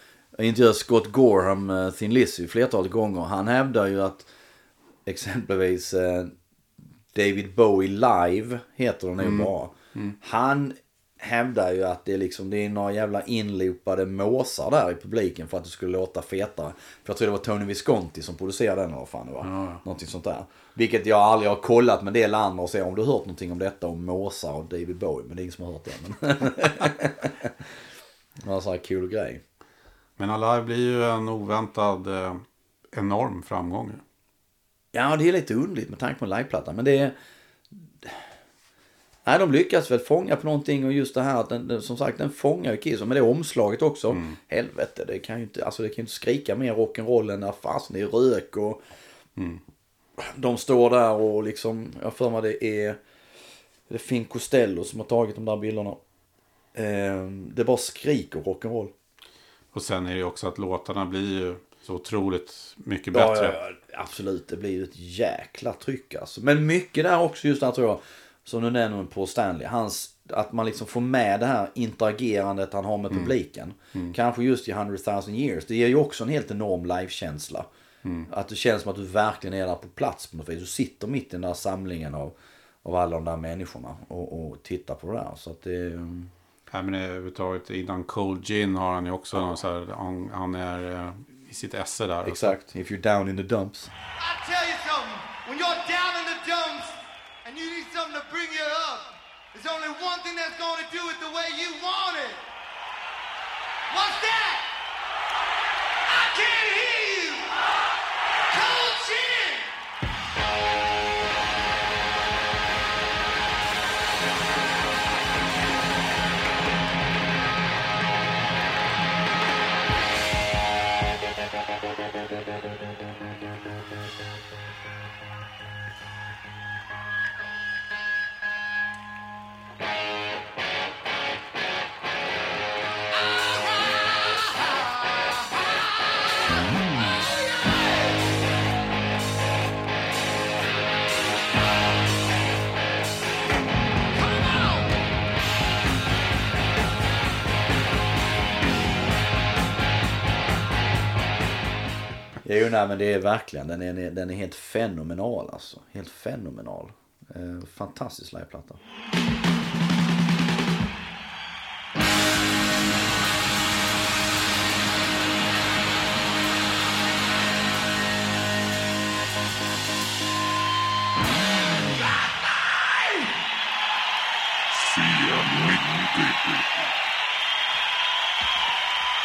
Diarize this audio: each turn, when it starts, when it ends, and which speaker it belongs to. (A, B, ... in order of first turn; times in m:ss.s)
0:00.4-0:04.3 A
0:05.1-0:06.4 A
0:07.1-0:27.5 A
0:09.2-0:10.2 B
0:19.4-0:19.8 B
0:28.4-0:29.4 A
0:30.2-0:34.0 B
0:34.9-0:37.2 A
0:39.3-0:48.8 A
0:44.1-0:44.4 B
0:49.4-0:49.6 B
0:50.2-0:53.0 A
0:53.9-0:56.0 A
0:56.8-0:58.9 A
0:59.7-1:03.6 B
1:03.1-1:17.7 A
1:18.3-1:26.3 A
1:26.7-1:32.6 B
1:32.2-1:33.9 A
1:34.2-1:42.4 C
1:43.9-1:44.7 C
1:46.1-1:47.7 C
1:48.5-1:49.7 C
2:13.6-2:15.8 C
2:16.6-2:17.0 A
2:17.3-2:18.2 C
2:24.2-2:24.8 C
2:32.4-2:38.8 A
2:55.3-2:55.8 B